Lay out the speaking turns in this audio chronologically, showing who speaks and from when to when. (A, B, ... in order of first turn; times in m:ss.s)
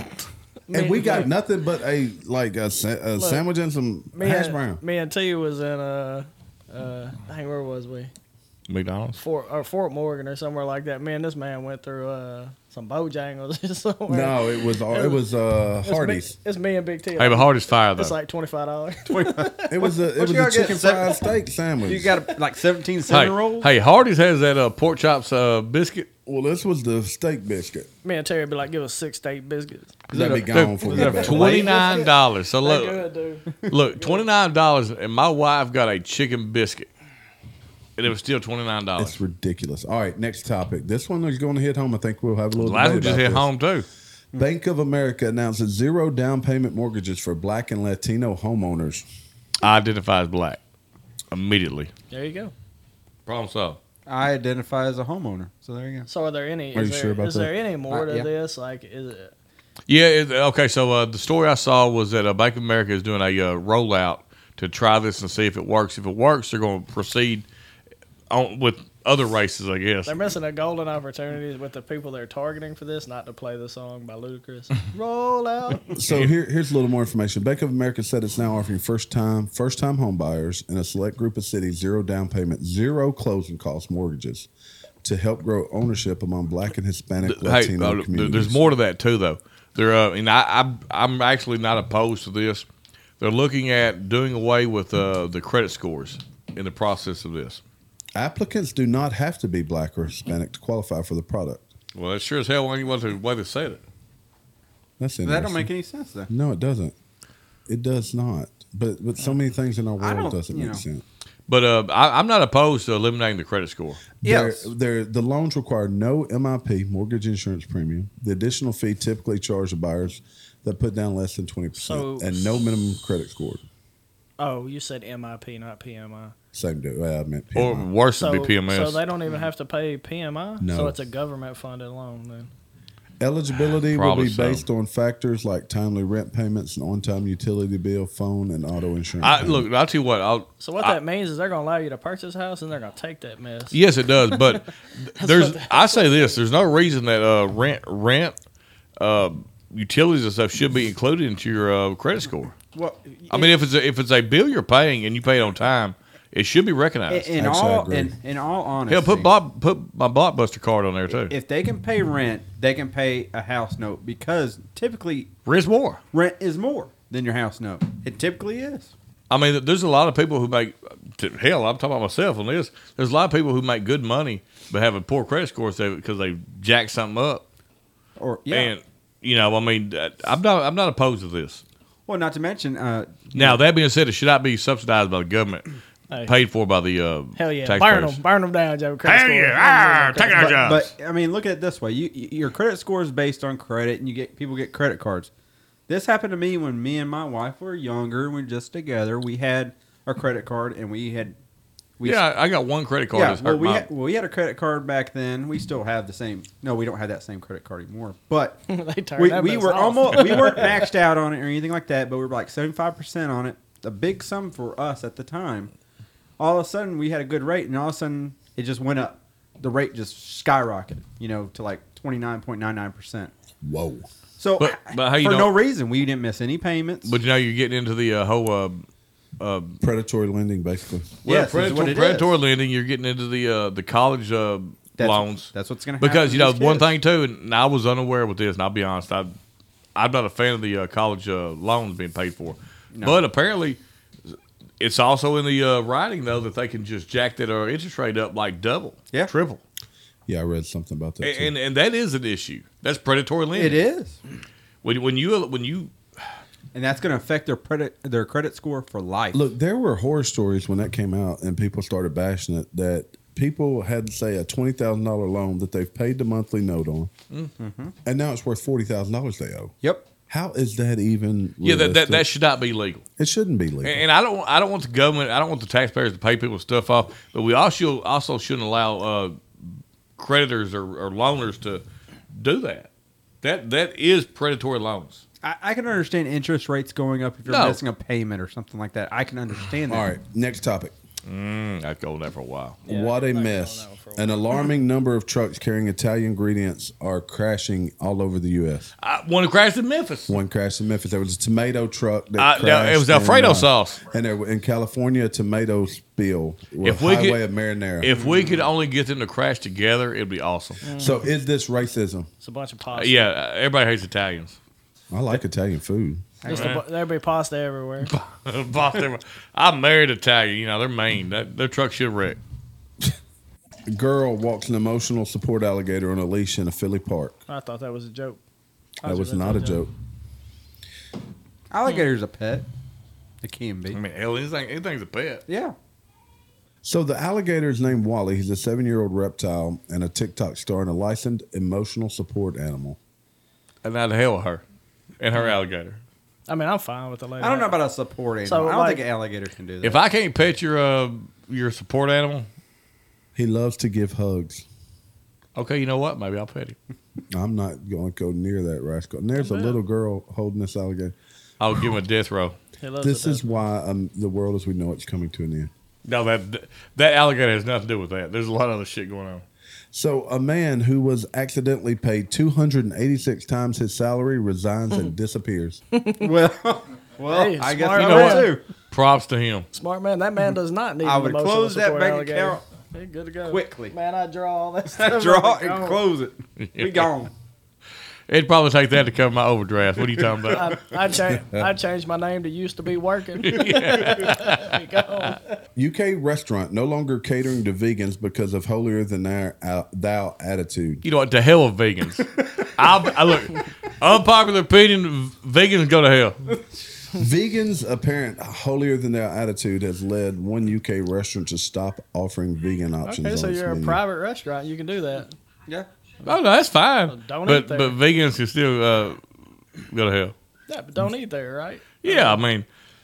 0:00.7-0:01.3 A
0:00.7-0:04.8 B
0:03.2-0:03.4 A
0:04.1-0:08.1 A
0:08.7-0:09.2 C
0:09.2-0:15.2 A
0:14.1-0:16.4 B
0:15.8-0:19.7 A
0:17.2-0:18.1 C
0:19.1-0:21.2 D
0:19.7-0:22.2 B
0:21.8-0:23.7 D
0:23.1-0:26.1 C
0:26.2-0:27.9 B
0:28.0-0:29.9 A
0:30.1-0:32.1 D
0:30.1-0:31.7 B
0:30.5-0:33.0 C
0:31.4-0:32.1 A
0:32.6-0:34.2 A
0:33.7-0:36.9 C
0:38.0-0:39.2 C
0:39.0-0:43.5 B
0:42.6-0:43.9 C
0:44.4-0:49.1 B
0:49.6-0:50.6 C
0:51.3-0:51.9 C
0:52.1-0:52.5 A
0:53.2-0:53.8 C
0:54.1-0:56.1 D
0:56.1-0:59.3 A
0:56.7-0:57.6 B
0:57.9-0:58.3 D
0:59.9-1:07.5 C
1:08.3-1:10.1 C
1:10.1-1:16.0 A
1:15.9-1:24.5 B
1:25.0-1:28.7 B
1:27.2-1:32.7 C
1:33.2-1:37.6 C
1:38.2-1:41.7 B
1:42.0-1:43.8 C
1:45.0-1:45.7 B
1:45.2-1:46.3 D
1:46.3-1:46.9 B
1:47.7-1:51.0 B
1:50.0-1:50.8 D
1:51.5-1:54.1 C
1:54.2-2:03.7 B
1:54.2-1:54.7 D
2:01.8-2:02.4 A
2:04.4-2:06.4 A
2:06.5-2:07.9 B
2:07.5-2:09.0 C
2:08.2-2:12.5 A
2:10.6-2:11.0 B
2:13.2-2:19.7 B
2:13.9-2:14.6 C
2:19.2-2:21.0 C
2:20.6-2:24.6 A
2:23.7-2:28.4 C
2:25.2-2:26.4 A
2:29.0-2:32.5 C
2:32.7-2:33.5 D
2:33.3-2:37.3 C
2:37.1-2:39.3 D
2:37.4-2:38.1 B
2:38.9-2:41.3 C
2:41.1-2:45.3 D
2:45.5-2:46.0 C
2:46.1-2:48.9 D
2:49.3-2:57.4 C
2:58.2-2:58.7 D
2:58.5-3:01.6 C
3:02.1-3:03.6 D
3:03.3-3:05.7 C
3:06.2-3:08.2 C
3:07.4-3:10.7 A
3:09.0-3:10.9 C
3:10.4-3:15.3 D
3:15.9-3:21.4 D
3:22.0-3:22.2 D
3:22.0-3:23.9 C
3:23.1-3:28.6 D
3:28.7-3:30.9 A
3:29.2-3:35.7 D
3:36.4-3:43.3 D
3:43.6-3:44.1 B
3:44.4-3:47.2 D
3:44.6-3:45.6 C
3:47.0-3:48.9 C
3:49.4-3:49.8 C
3:49.8-3:51.2 B
3:51.2-3:59.3 C
3:51.2-3:52.3 D
3:55.0-3:56.9 D
4:00.0-4:09.6 C
4:02.9-4:03.2 D
4:10.3-4:11.5 B
4:11.2-4:13.8 C
4:13.5-4:14.2 D
4:14.8-4:15.9 C
4:16.7-4:19.4 D
4:19.3-4:27.1 B
4:27.6-4:27.9 D
4:28.0-4:29.8 B
4:30.3-4:32.2 B
4:31.6-4:33.0 C
4:33.2-4:34.0 B
4:33.8-4:39.4 C
4:40.2-4:42.9 C
4:43.4-4:45.2 C
4:45.4-4:50.1 D
4:47.5-4:47.8 C
4:49.9-4:50.9 B
4:51.2-4:52.8 C
4:52.9-4:54.4 A
4:52.9-4:58.9 B
4:59.0-5:00.4 C
5:00.3-5:08.1 B
5:02.4-5:04.0 C
5:06.8-5:07.4 C
5:08.0-5:10.8 C
5:08.1-5:08.7 D
5:10.8-5:11.3 A
5:11.0-5:12.3 B
5:12.4-5:13.3 A
5:12.9-5:14.6 C
5:15.1-5:16.4 B
5:16.4-5:16.8 D
5:16.5-5:16.8 C
5:16.5-5:18.1 A
5:18.0-5:22.4 C
5:23.9-5:27.4 B
5:27.5-5:28.4 A
5:29.0-5:29.8 A
5:29.0-5:29.9 B
5:31.7-5:32.7 D
5:33.4-5:34.0 D
5:33.9-5:35.4 C
5:35.5-5:35.8 D
5:36.8-5:43.0 B
5:43.8-5:44.6 C
5:45.2-5:46.0 C
5:46.5-5:47.8 A
5:47.4-5:50.0 D
5:48.4-5:49.0 A
5:49.8-5:52.5 C
5:53.4-5:54.7 B
5:55.6-5:56.8 C
5:57.3-6:01.2 B
5:59.4-5:59.8 A
6:01.6-6:02.6 C
6:02.8-6:03.5 A
6:03.0-6:05.7 B
6:06.0-6:09.4 C
6:09.9-6:15.8 B
6:15.9-6:16.3 A
6:16.2-6:18.7 D
6:17.3-6:18.5 A
6:17.9-6:19.7 C
6:19.7-6:26.0 A
6:21.0-6:22.6 D
6:23.5-6:24.0 D
6:25.0-6:27.3 D
6:26.6-6:27.1 C
6:28.3-6:30.7 C
6:30.2-6:30.7 D
6:30.5-6:35.5 A
6:31.3-6:31.7 B
6:33.4-6:34.8 C
6:35.8-6:41.0 B
6:41.0-6:46.5 C
6:47.1-6:54.0 B
6:53.0-6:55.3 A
6:56.2-6:59.2 C
6:57.1-6:58.0 A
6:59.9-7:00.4 C
7:00.7-7:02.4 A
7:02.0-7:02.7 C